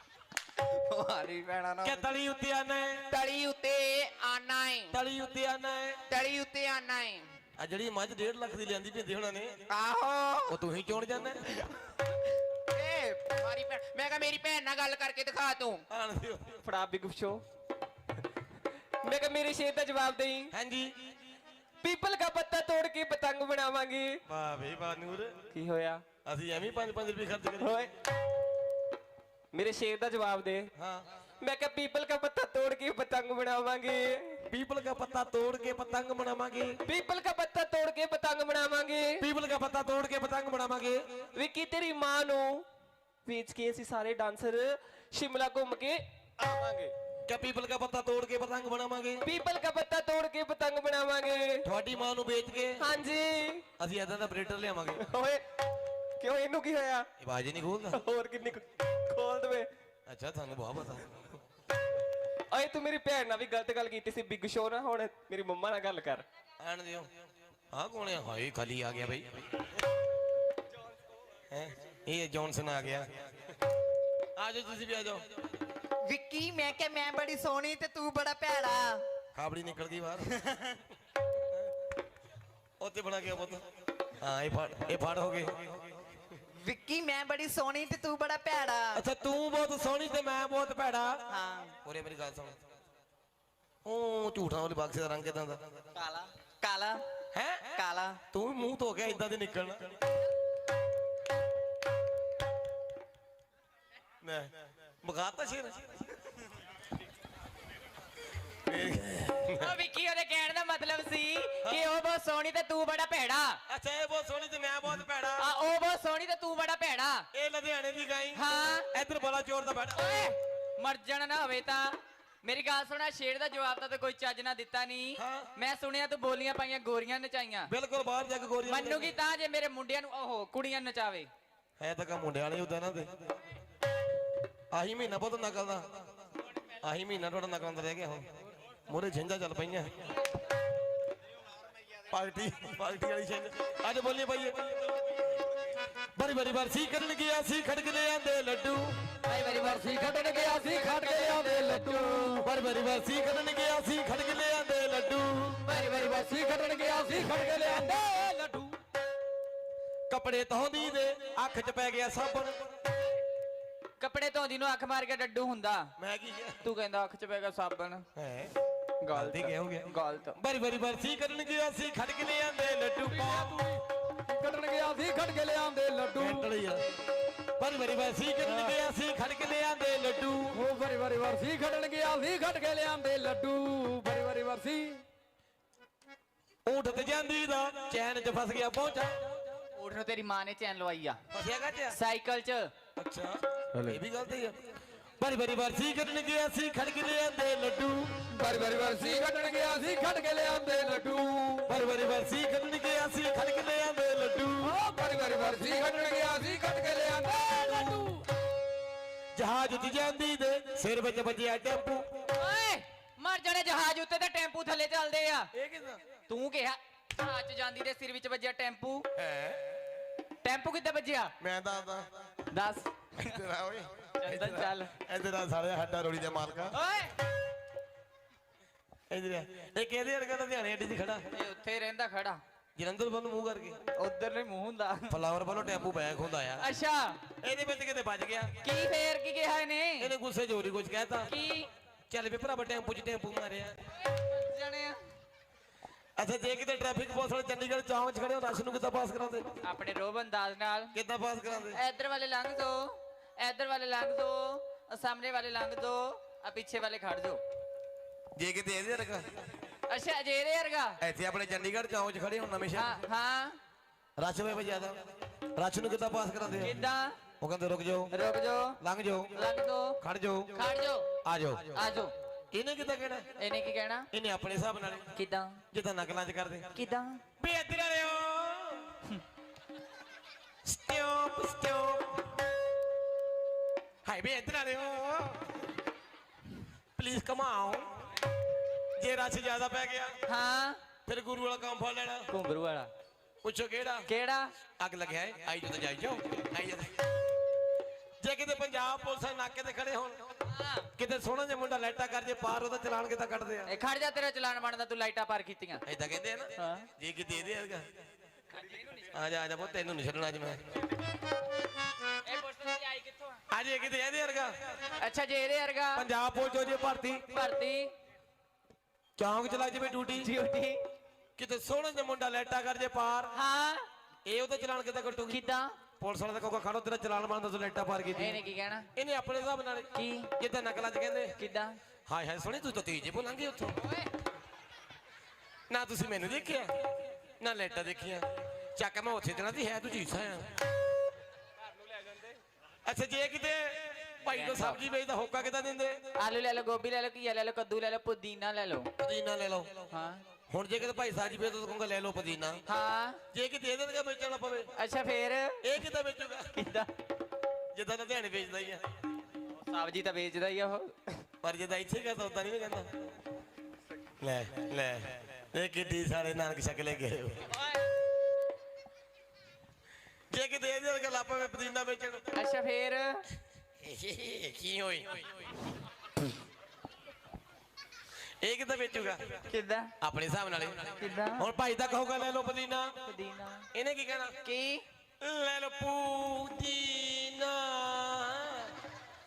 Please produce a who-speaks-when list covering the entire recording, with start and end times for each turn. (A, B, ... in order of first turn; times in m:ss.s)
0:00.9-0:02.0 A
0:01.0-0:01.3 B
0:01.8-0:03.0 C
0:03.1-0:05.0 A
0:04.9-0:06.0 C
0:06.1-0:07.2 A
0:07.6-0:09.5 C
0:09.7-0:10.6 A
0:10.5-0:11.6 C
0:12.7-0:15.8 A
0:15.9-0:16.6 C
0:16.6-0:17.4 D
0:19.0-0:20.5 D
0:20.5-0:20.9 C
0:21.8-0:24.2 D
0:24.3-0:25.4 C
0:25.5-0:26.0 D
0:26.2-0:27.8 C
0:27.6-0:27.9 D
0:29.5-0:30.7 D
0:30.8-0:31.0 C
0:31.4-0:34.4 D
0:34.5-0:36.8 C
0:36.8-0:39.2 D
0:39.2-0:41.0 C
0:41.3-0:42.6 D
0:43.2-0:46.9 D
0:47.3-0:49.2 C
0:49.2-0:51.6 D
0:51.6-0:52.9 C
0:52.8-0:53.6 D
0:53.8-0:55.1 C
0:55.0-0:55.4 D
0:56.2-0:57.1 D
0:57.2-0:58.0 C
0:57.9-0:59.7 D
1:00.1-1:01.4 C
1:02.5-1:06.2 D
1:06.6-1:07.1 C
1:07.7-1:09.4 C
1:11.5-1:13.2 C
1:14.4-1:15.2 C
1:16.0-1:19.0 B
1:19.3-1:20.3 C
1:20.3-1:20.8 B
1:22.8-1:23.6 C
1:24.2-1:25.7 C
1:26.6-1:29.0 B
1:28.9-1:31.2 C
1:31.3-1:31.7 B
1:31.8-1:32.6 C
1:33.8-1:35.6 C
1:35.9-1:37.0 B
1:37.3-1:37.7 C
1:37.7-1:38.2 B
1:38.3-1:40.0 C
1:44.2-1:44.5 C
1:45.0-1:45.8 C
1:48.7-1:49.7 C
1:49.6-1:53.6 E
1:53.7-1:55.5 C
1:55.4-1:57.3 E
1:57.3-2:00.0 C
1:58.3-1:58.9 E
2:00.0-2:07.7 E
2:05.2-2:05.5 C
2:07.7-2:09.1 C
2:08.6-2:11.3 E
2:11.8-2:13.1 C
2:14.7-2:15.9 C
2:16.8-2:18.3 C
2:18.9-2:19.9 C
2:22.1-2:24.9 C
2:26.2-2:29.0 C
2:29.2-2:32.3 E
2:29.6-2:32.4 D
2:32.3-2:35.7 C
2:35.6-2:36.3 E
2:35.7-2:38.8 D
2:37.1-2:37.8 E
2:37.2-2:37.6 C
2:40.1-2:42.6 C
2:44.0-2:45.9 E
2:46.0-2:46.6 C
2:46.6-2:48.0 E
2:48.2-2:48.5 C
2:49.0-2:50.4 E
2:49.1-2:53.8 C
2:53.1-2:53.7 D
2:54.3-2:56.5 D
2:56.1-2:56.8 C
2:57.6-3:00.6 C
3:00.5-3:05.0 D
3:06.6-3:09.1 C
3:09.8-3:11.2 E
3:11.3-3:12.0 C
3:11.9-3:12.7 E
3:13.0-3:14.6 C
3:15.2-3:18.3 C
3:18.4-3:21.6 D
3:21.6-3:24.8 C
3:24.6-3:28.2 D
3:29.3-3:32.1 C
3:32.3-3:35.5 E
3:35.5-3:36.0 C
3:36.3-3:39.0 E
3:39.2-3:39.8 C
3:40.4-3:41.3 E
3:41.4-3:42.1 C
3:42.5-3:43.3 E
3:43.2-3:46.7 C
3:44.2-3:44.9 E
3:46.7-3:47.1 E
3:49.1-3:51.3 C
3:51.3-3:52.4 E
3:52.8-3:53.8 C
3:54.0-3:55.2 E
3:55.1-3:56.6 C
3:56.6-3:57.2 E
3:57.4-3:58.5 C
3:58.6-4:00.1 E
4:00.0-4:01.3 C
4:01.3-4:01.7 E
4:02.1-4:03.8 C
4:04.1-4:05.0 E
4:06.2-4:09.6 C
4:09.6-4:10.9 E
4:10.9-4:11.8 C
4:11.7-4:17.4 E
4:18.4-4:19.3 C
4:19.9-4:21.0 E
4:21.0-4:23.0 C
4:22.8-4:23.6 E
4:24.2-4:25.0 C
4:25.6-4:26.8 C
4:26.6-4:27.2 E
4:27.4-4:28.1 C
4:28.1-4:28.8 E
4:28.8-4:29.3 C
4:29.3-4:30.0 E
4:30.0-4:30.5 C
4:30.5-4:31.0 E
4:31.2-4:31.8 C
4:31.7-4:32.1 E
4:32.5-4:33.3 C
4:33.4-4:34.1 E
4:34.1-4:35.1 C
4:35.1-4:35.6 E
4:35.7-4:36.6 C
4:36.7-4:37.2 E
4:37.4-4:38.9 C
4:40.6-4:42.2 C
4:44.0-4:45.5 C
4:47.0-4:47.9 C
4:49.0-4:50.2 C
4:50.3-4:50.8 E
4:51.0-4:52.3 C
4:52.3-4:52.9 E
4:53.4-4:54.1 C
4:54.1-4:54.5 E
4:54.8-4:56.9 C
4:58.2-5:00.2 C
5:00.5-5:00.9 E
5:01.0-5:03.7 C
5:03.7-5:05.8 E
5:05.8-5:07.8 C
5:06.6-5:06.9 E
5:08.6-5:09.0 E
5:09.1-5:10.6 C
5:12.2-5:13.4 E
5:13.5-5:14.5 C
5:15.0-5:16.1 E
5:16.0-5:17.2 C
5:17.3-5:17.9 E
5:19.2-5:20.3 C
5:20.2-5:20.8 E
5:21.4-5:23.3 C
5:23.3-5:23.9 E
5:24.2-5:25.4 C
5:25.3-5:25.8 E
5:26.0-5:28.4 C
5:28.2-5:28.9 E
5:28.9-5:31.4 C
5:29.9-5:30.3 E
5:31.4-5:31.8 E
5:32.1-5:33.8 C
5:35.7-5:36.7 C
5:37.4-5:40.5 C
5:42.8-5:46.0 C
5:44.3-5:44.8 E
5:46.2-5:48.9 E
5:49.0-5:49.8 C
5:49.9-5:50.2 E
5:50.5-5:52.6 C
5:52.7-5:53.2 E
5:53.3-5:54.7 C
5:54.7-5:55.6 E
5:55.6-5:56.6 C
5:56.6-5:56.9 E
5:57.7-5:58.8 C
5:59.6-6:01.2 E
6:01.4-6:02.9 C
6:04.2-6:07.5 C
6:10.3-6:12.2 C
6:12.3-6:13.2 E
6:13.8-6:15.5 C
6:18.4-6:19.4 C
6:19.5-6:19.9 E
6:20.0-6:22.9 C
6:21.0-6:21.5 E
6:23.0-6:23.7 E
6:23.7-6:24.3 C
6:24.4-6:24.8 E
6:25.2-6:28.7 C